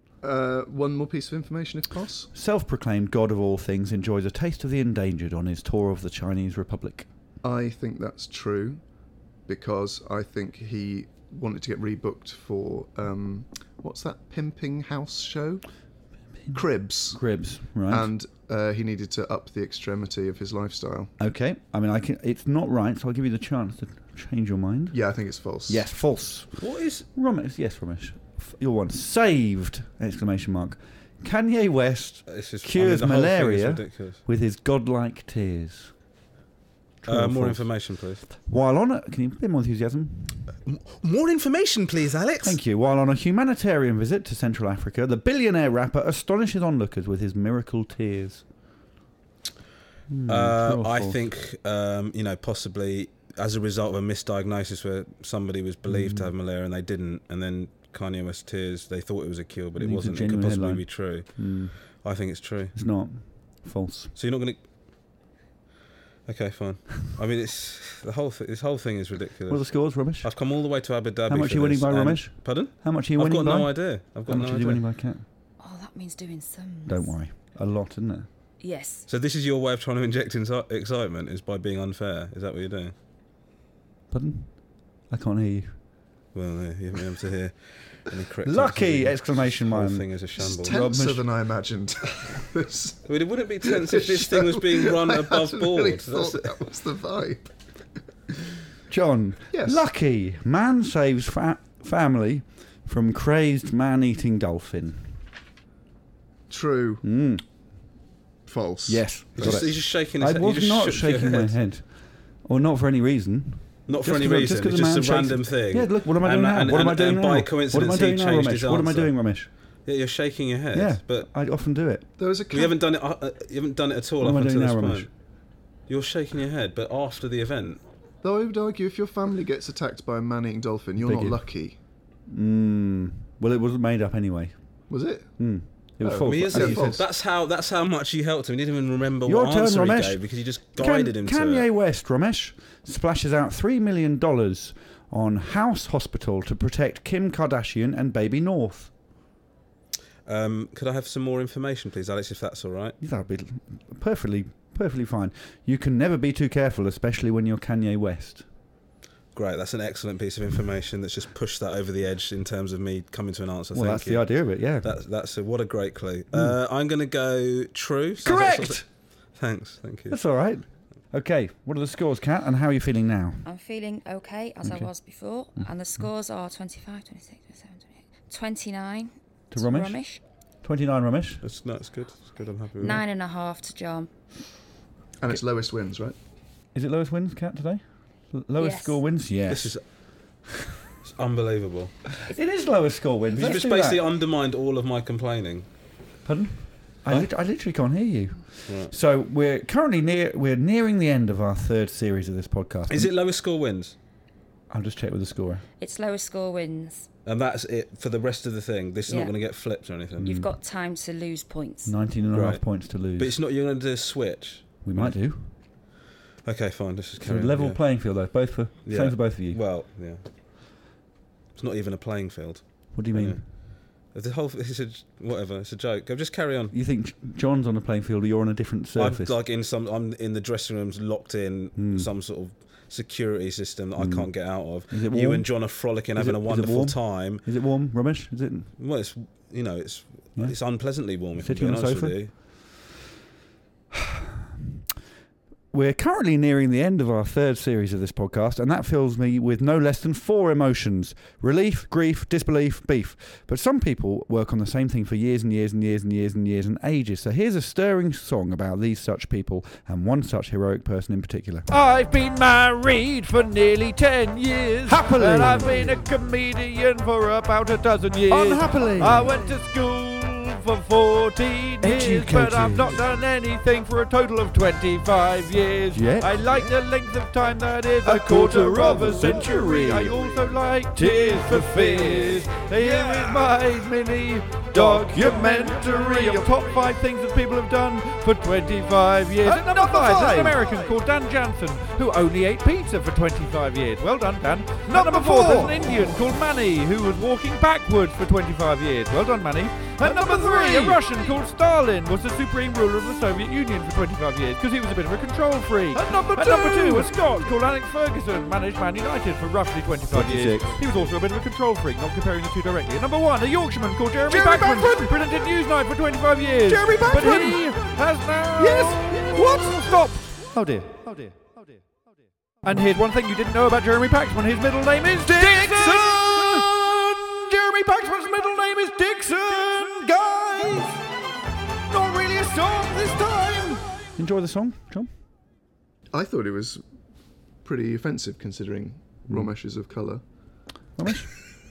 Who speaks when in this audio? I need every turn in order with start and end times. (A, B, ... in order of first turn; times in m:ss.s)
0:00.2-0:02.3 A
0:02.3-0:07.1 B
0:07.4-0:08.8 A
0:09.5-0:15.6 A
0:16.4-0:18.1 B
0:16.5-0:17.2 A
0:17.9-0:21.1 A
0:21.2-0:25.0 B
0:24.9-0:25.8 A
0:25.7-0:35.9 B
0:26.6-0:27.1 C
0:32.3-0:34.2 C
0:37.0-0:37.7 B
0:37.0-0:38.2 C
0:38.4-0:40.4 B
0:40.7-0:42.6 C
0:42.4-0:48.4 B
0:50.1-0:51.2 B
0:50.3-1:02.8 C
0:55.9-0:56.3 B
0:59.8-1:01.8 B
1:02.8-1:04.1 B
1:04.2-1:04.6 C
1:06.3-1:14.8 C
1:09.5-1:10.3 B
1:11.3-1:15.2 B
1:15.6-1:17.2 D
1:16.9-1:18.3 B
1:18.6-1:19.1 D
1:19.1-1:22.9 C
1:24.1-1:25.8 B
1:26.3-1:30.8 C
1:28.4-1:31.2 B
1:30.4-1:33.1 A
1:33.0-1:36.5 C
1:33.6-1:37.5 A
1:38.9-1:45.2 B
1:39.5-1:39.8 A
1:46.5-1:47.0 A
1:47.0-1:47.4 B
1:48.5-1:49.6 A
1:48.9-1:51.9 B
1:49.4-1:51.6 C
1:52.4-1:59.5 B
1:53.9-1:59.2 C
1:59.9-2:01.3 C
2:00.7-2:02.1 B
2:02.2-2:02.8 A
2:02.5-2:05.1 C
2:04.2-2:05.1 B
2:05.9-2:07.8 C
2:08.2-2:11.8 A
2:11.0-2:11.4 B
2:12.3-2:14.5 B
2:14.9-2:15.3 A
2:15.4-2:17.0 B
2:16.0-2:17.0 A
2:16.2-2:21.7 C
2:19.2-2:20.2 B
2:20.8-2:28.9 B
2:30.2-2:33.0 C
2:33.0-2:38.5 B
2:39.4-2:50.2 C
2:43.7-2:44.9 B
2:48.2-2:48.8 B
2:50.1-2:53.5 B
2:53.4-3:00.2 D
2:54.6-2:54.9 B
2:59.5-3:00.0 B
3:00.6-3:01.4 B
3:01.4-3:03.0 C
3:02.8-3:04.1 D
3:05.2-3:06.2 A
3:06.8-3:09.8 B
3:08.6-3:09.0 D
3:09.5-3:09.8 C
3:11.0-3:11.9 C
3:12.2-3:14.0 B
3:13.4-3:15.7 C
3:16.2-3:23.1 B
3:18.7-3:18.9 C
3:22.9-3:24.0 C
3:24.7-3:25.6 B
3:25.8-3:27.1 D
3:27.2-3:30.4 C
3:29.1-3:29.4 D
3:30.2-3:30.5 B
3:30.2-3:32.0 D
3:31.8-3:33.4 B
3:32.3-3:35.2 C
3:34.8-3:35.5 B
3:36.4-3:37.8 C
3:37.2-3:39.6 B
3:38.8-3:40.2 C
3:41.6-3:46.8 C
3:42.9-3:43.4 B
3:46.7-3:49.3 B
3:49.0-3:57.4 C
3:51.8-3:52.1 B
3:54.0-3:58.7 B
3:58.8-4:02.3 C
4:00.4-4:02.4 B
4:03.9-4:04.3 B
4:05.7-4:21.7 B
4:21.7-5:20.5 E
4:24.9-4:26.0 B
4:28.3-4:29.5 B
4:31.8-4:33.0 B
4:35.9-4:36.7 B
4:38.0-4:40.2 B
4:40.9-4:43.8 B
4:44.7-4:46.6 B
4:49.4-4:51.0 B
4:54.9-4:56.2 B
5:00.0-5:01.1 B
5:06.0-5:07.1 B
5:10.1-5:10.9 B
5:14.3-5:15.1 B
5:16.6-5:17.9 B
5:18.6-5:21.5 B
5:22.6-5:26.7 E
5:25.2-5:31.0 B
5:31.9-5:35.1 B
5:32.0-5:33.8 E
5:36.1-5:36.8 A
5:37.6-5:40.2 A
5:41.0-5:41.3 B